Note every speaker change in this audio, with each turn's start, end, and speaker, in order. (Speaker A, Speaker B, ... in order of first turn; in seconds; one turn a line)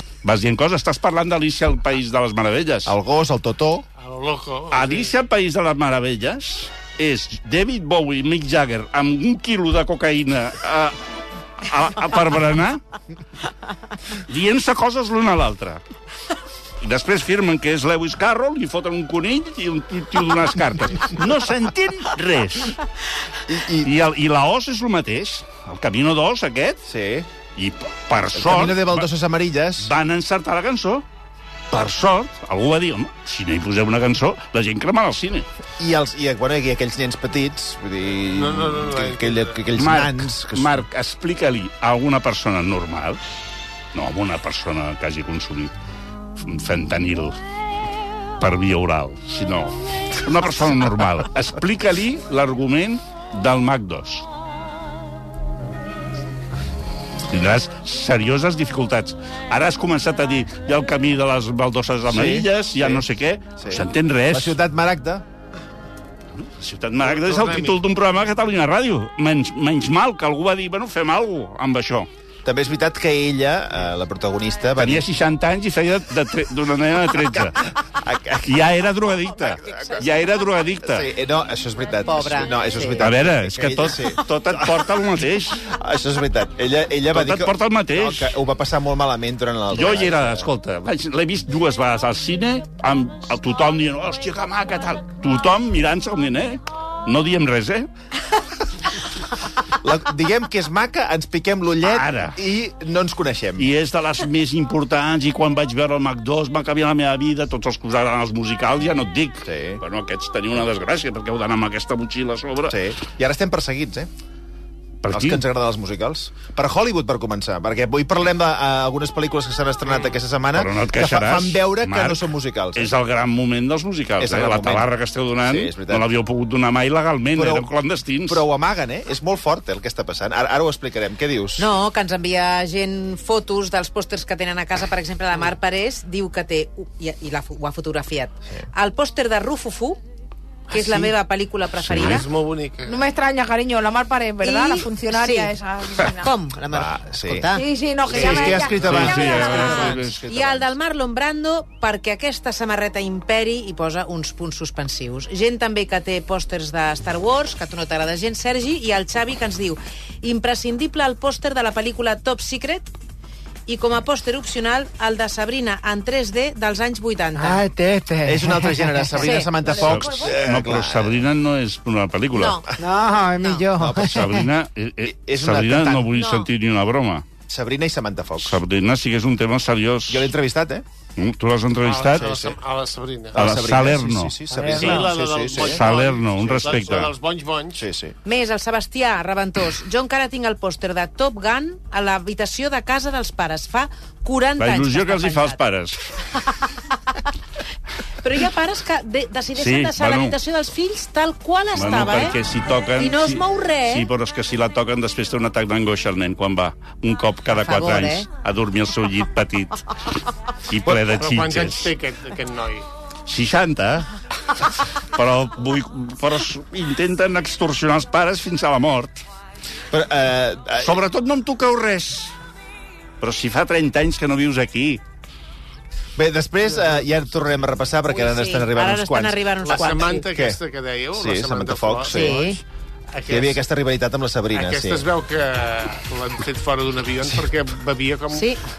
Speaker A: 0.2-2.9
Speaker B: 2.9-3.9
Speaker C: 4.0-5.1
Speaker A: 4.7-11.0
Speaker A: 11.6-12.8
Speaker A: 14.2-15.8
Speaker A: 16.8-22.8
Speaker B: 23.5-23.9
Speaker A: 23.8-26.9
Speaker B: 26.9-27.3
Speaker A: 27.6-29.1
Speaker B: 28.3-29.9
Speaker A: 29.8-31.0
Speaker A: 31.7-35.5
Speaker B: 35.8-40.8
Speaker C: 38.3-39.6
Speaker A: 39.8-43.2
Speaker A: 43.9-45.7
Speaker A: 46.4-47.4
Speaker A: 48.4-54.2
Speaker A: 57.3-64.6
Speaker B: 62.1-63.0
Speaker B: 63.6-65.2
Speaker A: 66.4-72.1
Speaker C: 67.0-67.8
Speaker B: 72.4-75.1
Speaker A: 74.8-77.7
Speaker B: 77.3-78.6
Speaker A: 78.4-81.1
Speaker B: 80.8-84.9
Speaker D: 82.0-83.0
Speaker A: 83.0-85.7
Speaker B: 85.6-90.5
Speaker A: 87.1-88.3
Speaker A: 89.7-97.9
Speaker B: 99.7-103.7
Speaker A: 101.8-102.4
Speaker A: 103.6-112.8
Speaker B: 109.4-109.8
Speaker B: 112.7-114.1
Speaker A: 115.0-115.4
Speaker B: 115.1-122.9
Speaker A: 120.5-128.4
Speaker B: 124.2-124.9
Speaker B: 125.4-126.1
Speaker B: 127.3-127.7
Speaker B: 128.3-131.7
Speaker D: 131.6-140.0
Speaker D: 140.7-142.2
Speaker A: 141.8-142.2
Speaker C: 142.0-143.0
Speaker E: 142.8-146.3
Speaker D: 144.4-162.9
Speaker B: 146.7-147.4
Speaker E: 147.5-149.9
Speaker B: 148.1-150.7
Speaker C: 148.1-149.3
Speaker A: 148.8-150.2
Speaker D: 163.7-167.7
Speaker E: 167.4-170.0
Speaker B: 168.2-171.2
Speaker D: 169.1-170.1
Speaker A: 169.7-172.6
Speaker D: 172.3-172.7
Speaker E: 172.8-174.3
Speaker D: 173.2-173.7
Speaker B: 173.7-174.4
Speaker A: 173.8-177.2
Speaker B: 175.0-176.1
Speaker D: 176.1-176.5
Speaker B: 177.5-178.6
Speaker A: 178.4-180.3
Speaker B: 180.1-180.8
Speaker A: 181.2-182.3
Speaker C: 181.8-183.4
Speaker B: 182.1-182.6
Speaker B: 183.3-187.1
Speaker A: 183.3-185.0
Speaker E: 184.6-184.8
Speaker C: 184.6-187.8
Speaker A: 185.6-187.1
Speaker B: 187.8-188.1
Speaker D: 188.2-195.6
Speaker A: 194.6-196.4
Speaker D: 198.1-202.4
Speaker A: 199.6-200.3
Speaker A: 201.7-211.9
Speaker D: 202.9-204.1
Speaker D: 207.5-208.3
Speaker C: 210.9-212.8
Speaker A: 213.2-219.2
Speaker B: 219.9-221.0
Speaker A: 220.8-222.3
Speaker A: 223.2-225.0
Speaker B: 226.2-229.4
Speaker C: 226.8-227.1
Speaker D: 228.1-230.3
Speaker C: 229.6-232.5
Speaker B: 230.1-230.6
Speaker B: 231.1-232.4
Speaker D: 232.1-232.6
Speaker C: 233.1-233.6
Speaker B: 233.2-235.1
Speaker C: 234.5-238.5
Speaker D: 238.3-238.6